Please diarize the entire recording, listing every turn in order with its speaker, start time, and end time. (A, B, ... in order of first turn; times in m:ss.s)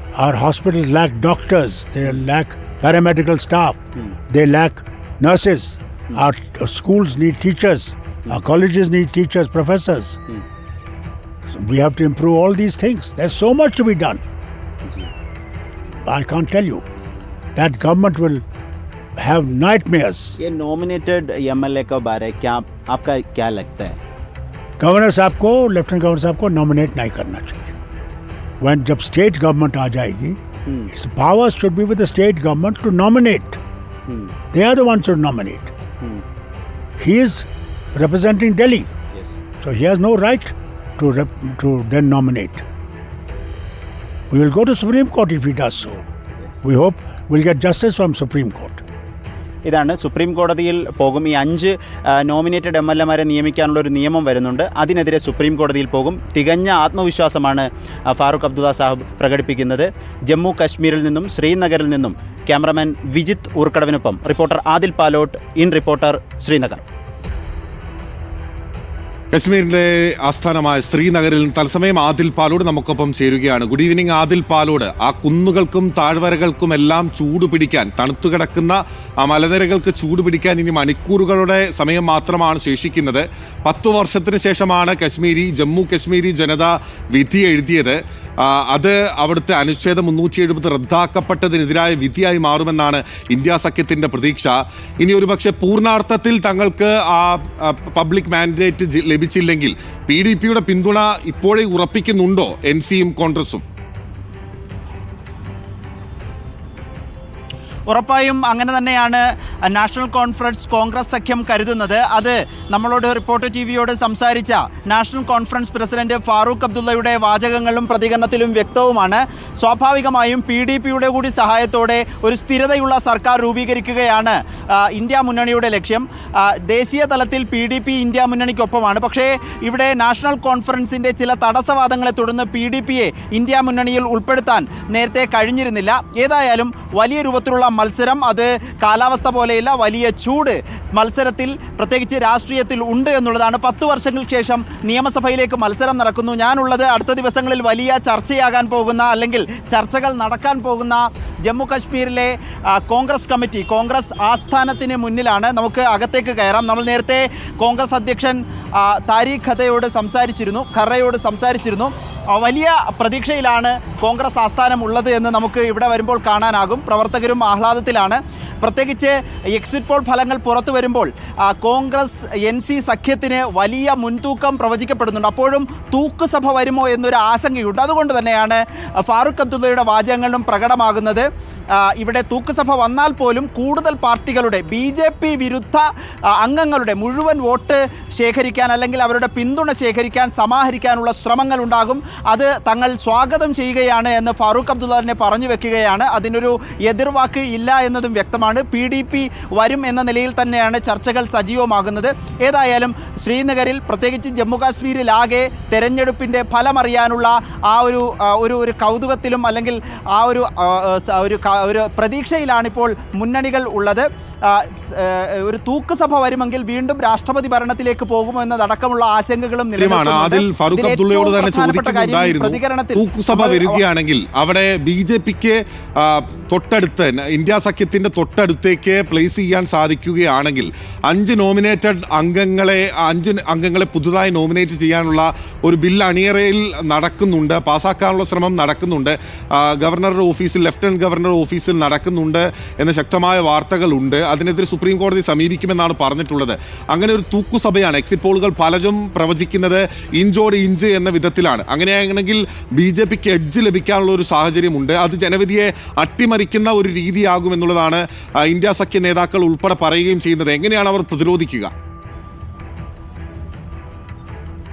0:00.2-0:10.2 A
0:11.5-0:14.2 A
0:16.0-0:16.8 A
0:17.6-0:18.4 A
0:19.2-0:20.4 A
0:20.4-0:24.0 B
0:24.8-0:27.7 A
0:28.6-0:30.4 A
0:30.7-0:30.9 B
0:30.9-0:33.6 A
0:34.1-0:34.3 B
0:34.5-0:35.7 A
0:37.0-0:38.9 A
0:39.6-0:42.6 A
0:44.3-0:46.0 A
0:46.6-0:48.8 A
0:49.6-1:06.8 B
1:09.3-1:43.6 C
1:47.9-3:01.3 B
3:02.0-3:05.9 B
3:06.4-3:43.8 B
3:39.8-4:21.7 C